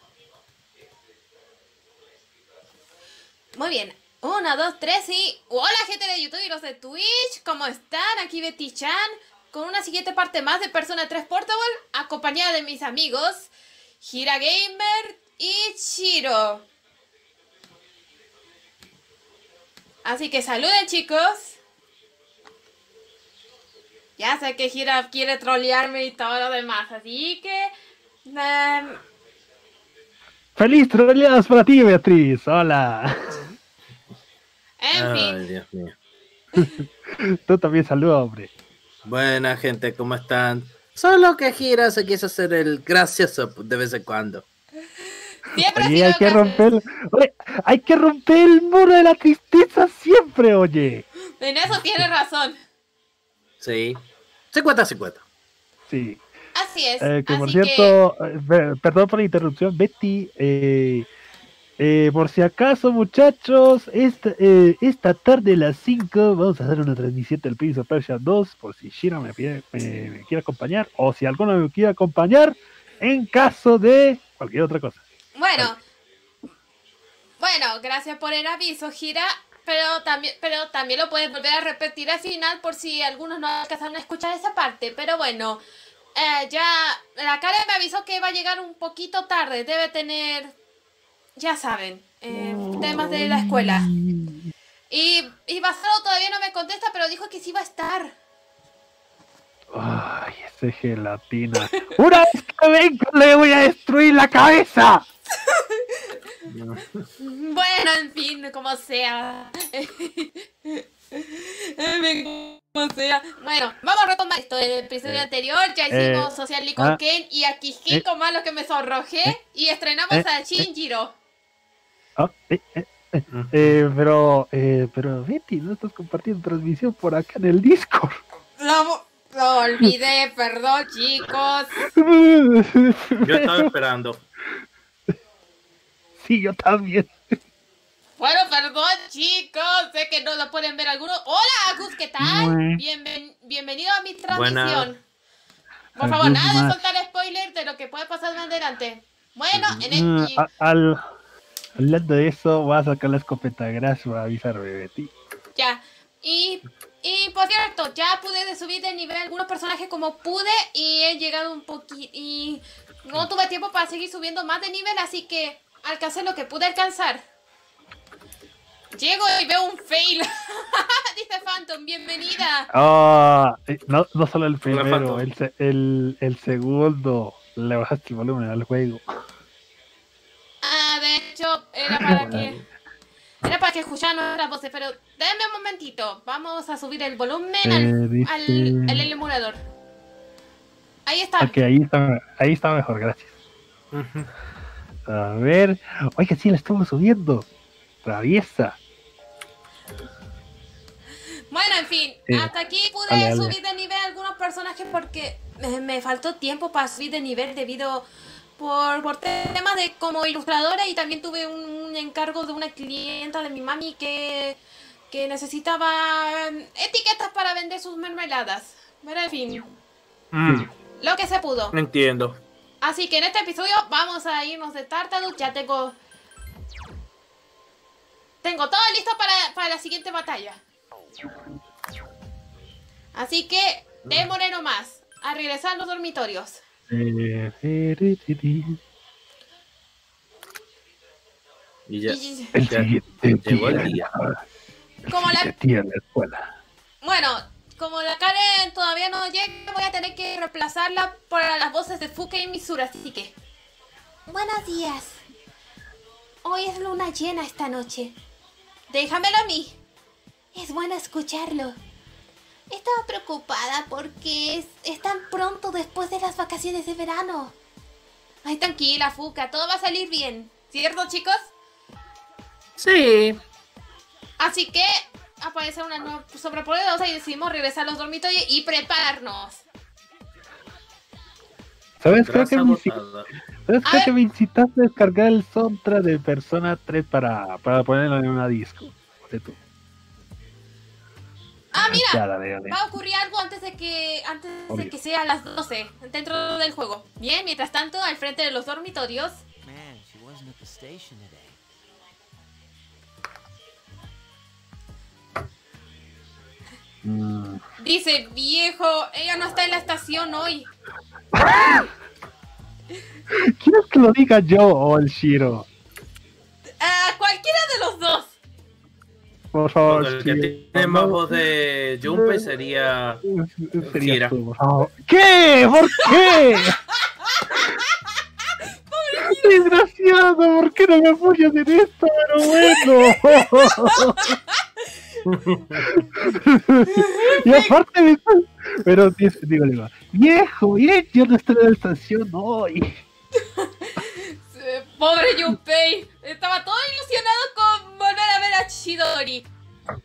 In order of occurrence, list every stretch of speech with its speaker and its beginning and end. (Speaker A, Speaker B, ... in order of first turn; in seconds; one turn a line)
Speaker A: 3.5-16.6
Speaker A: 20.0-21.6
Speaker A: 24.2-27.7
Speaker A: 28.2-29.0
Speaker B: 30.6-33.4
Speaker A: 34.8-35.4
Speaker C: 34.9-35.9
Speaker B: 36.6-38.5
Speaker C: 39.0-44.4
Speaker A: 45.5-46.7
Speaker B: 45.6-51.0
Speaker A: 51.4-52.6
Speaker B: 51.7-52.0
Speaker C: 53.6-54.0
Speaker C: 54.5-55.2
Speaker B: 55.9-56.2
Speaker A: 56.5-57.9
Speaker B: 57.0-61.1
Speaker B: 61.8-75.0
Speaker A: 75.3-75.8
Speaker A: 77.4-85.6
Speaker A: 86.1-90.5
Speaker A: 91.4-93.9
Speaker B: 92.3-94.5
Speaker A: 94.9-98.1
Speaker B: 99.7-105.0
Speaker A: 105.5-106.2
Speaker C: 106.5-107.0
Speaker A: 107.2-121.1
Speaker B: 115.9-117.0
Speaker B: 120.1-120.7
Speaker B: 122.2-128.2
Speaker C: 123.3-123.8
Speaker A: 128.6-131.7
Speaker B: 131.8-133.7
Speaker C: 133.2-134.2
Speaker B: 136.2-137.3
Speaker A: 138.2-145.0
Speaker B: 142.2-142.8
Speaker C: 144.3-144.9
Speaker A: 146.0-150.4
Speaker B: 146.0-146.8
Speaker C: 149.5-149.8
Speaker B: 149.9-151.1
Speaker B: 151.8-155.1
Speaker A: 155.6-167.2
Speaker A: 168.9-172.7
Speaker B: 172.7-179.0
Speaker C: 174.7-175.2
Speaker A: 180.6-182.6
Speaker B: 181.8-182.5
Speaker A: 183.4-189.6
Speaker B: 187.6-189.1
Speaker A: 191.1-191.6
Speaker B: 191.4-193.3
Speaker C: 193.9-194.3
Speaker B: 195.1-197.5
Speaker B: 198.0-198.8
Speaker A: 201.5-208.1
Speaker B: 203.1-203.6
Speaker A: 208.6-214.6
Speaker A: 215.1-219.7
Speaker C: 220.3-220.7
Speaker A: 221.0-221.7
Speaker C: 221.7-222.4
Speaker A: 222.8-226.0
Speaker A: 228.4-230.6
Speaker A: 233.1-236.6
Speaker B: 236.9-238.8
Speaker C: 241.9-244.1
Speaker A: 242.1-242.5
Speaker B: 242.5-244.4
Speaker A: 245.1-245.5
Speaker B: 245.1-246.5
Speaker A: 247.0-253.3
Speaker A: 254.3-255.2
Speaker A: 256.4-258.1
Speaker A: 258.9-259.8
Speaker A: 260.5-261.8
Speaker A: 262.7-267.5
Speaker A: 268.4-271.5
Speaker C: 272.8-273.4
Speaker A: 274.4-279.6
Speaker B: 282.0-282.9
Speaker C: 282.2-283.3
Speaker B: 283.7-289.6
Speaker A: 283.8-284.1
Speaker A: 291.7-299.4
Speaker B: 291.8-292.8
Speaker D: 299.6-301.6
Speaker B: 307.0-307.6
Speaker A: 307.8-310.7
Speaker B: 311.3-311.9
Speaker B: 313.3-315.7
Speaker A: 316.8-318.4
Speaker B: 319.5-321.2
Speaker C: 319.8-323.2
Speaker B: 322.0-322.5
Speaker B: 323.2-326.8
Speaker C: 323.8-324.3
Speaker A: 328.9-329.7
Speaker B: 329.1-334.4
Speaker A: 332.6-334.6
Speaker C: 335.2-335.9
Speaker B: 335.9-343.0
Speaker A: 336.9-337.7
Speaker A: 343.6-349.5